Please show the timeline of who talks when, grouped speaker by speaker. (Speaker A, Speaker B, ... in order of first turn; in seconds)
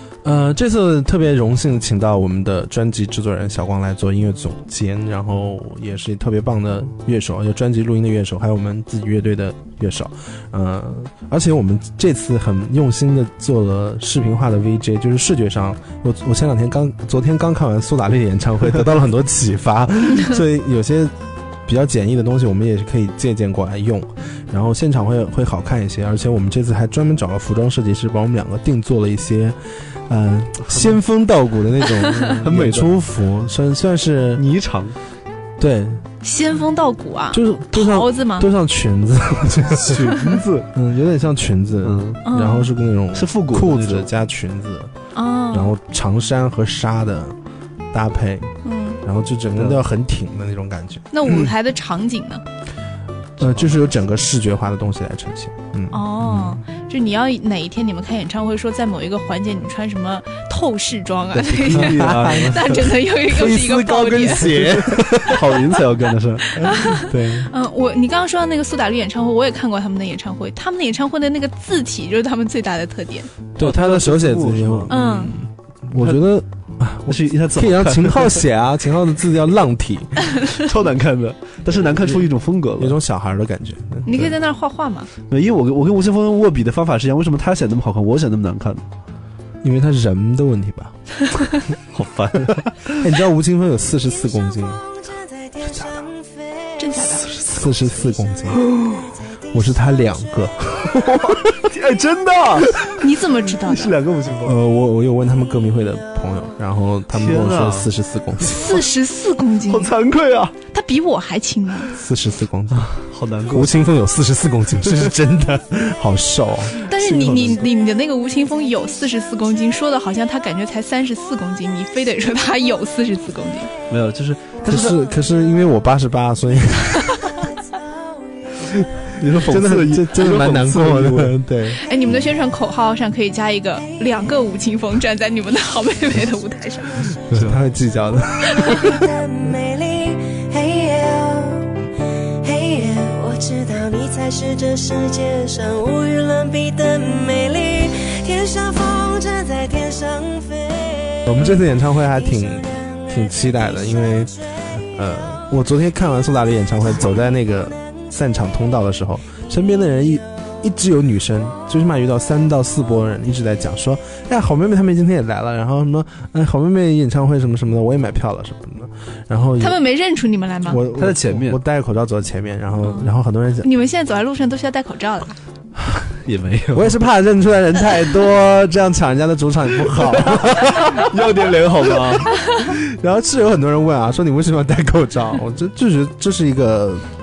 Speaker A: 0.2-34.4, 35.6-36.0, 37.3-44.9, 45.5-47.4, 47.9-51.5, 53.4-56.6, 61.7-65.6, 67.0-67.5, 73.6-80.4, 82.8-84.4, 89.6-91.0, 93.0-94.8, 95.6-96.1, 97.0-98.6, 99.5-101.3, 104.4-108.6, 111.9-113.0, 113.5-116.8, 124.7-127.2, 129.4-131.8, 137.3-139.0, 151.2-169.8, 170.7-173.7, 176.7-181.0, 182.0-187.1
Speaker B: 30.7-31.0, 32.4-33.0, 34.4-35.0, 39.9-40.6, 41.8-42.2, 43.1-44.1, 49.5-49.8, 53.4-53.7, 61.4-62.6, 64.4-66.5, 73.6-74.9, 77.1-78.4, 80.6-83.0, 85.3-88.8, 91.9-93.1, 98.5-99.0, 101.0-102.8, 103.6-104.6, 107.1-107.9, 109.7-110.5, 112.7-113.9, 116.9-117.7, 123.9-125.0, 129.2-131.4, 170.9-171.6, 175.9-177.0, 179.9-182.2
Speaker C: 36.2-38.5, 42.2-42.7, 45.1-45.7, 48.6-49.0, 51.1-52.4, 55.9-64.5, 66.6-73.3, 74.9-75.3, 84.0-85.1, 96.8-97.3, 103.0-103.9, 108.4-109.9, 110.7-111.9, 116.9-123.7, 131.8-137.1, 138.5-138.9, 169.6-170.8, 173.6-175.4
Speaker D: 94.2-96.8, 138.7-141.7, 142.4-151.6